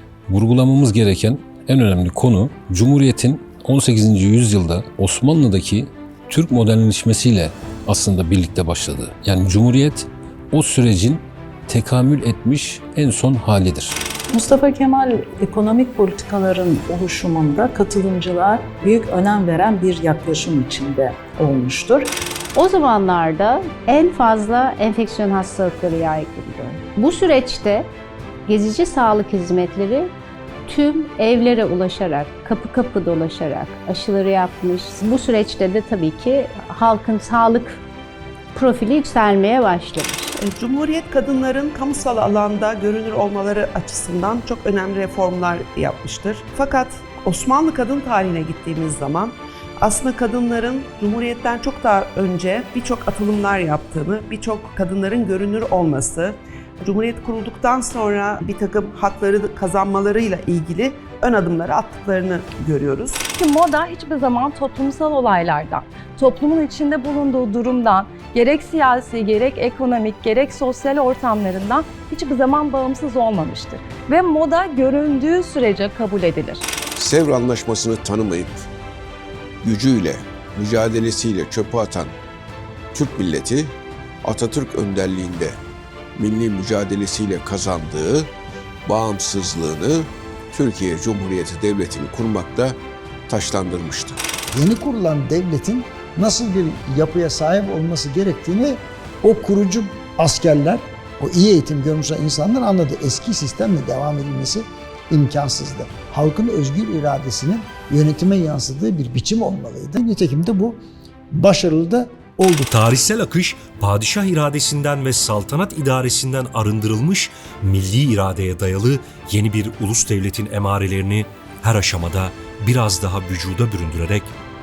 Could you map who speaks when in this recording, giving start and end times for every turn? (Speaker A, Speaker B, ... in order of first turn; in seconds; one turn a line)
Speaker A: 0.3-14.0
Speaker B: 14.3-22.1
Speaker C: 22.6-27.9
Speaker C: 28.5-30.1
Speaker C: 30.7-37.8
Speaker C: 38.5-40.3
Speaker D: 40.4-63.2
Speaker E: 63.3-76.6
Speaker F: 77.0-78.7
Speaker F: 79.6-82.1
Speaker F: 82.9-83.7
Speaker F: 84.2-85.6
Speaker F: 86.2-88.3
Speaker F: 88.8-92.8
Speaker F: 93.3-94.2
Speaker G: 94.5-110.8
Speaker G: 111.3-112.8
Speaker H: 113.0-124.3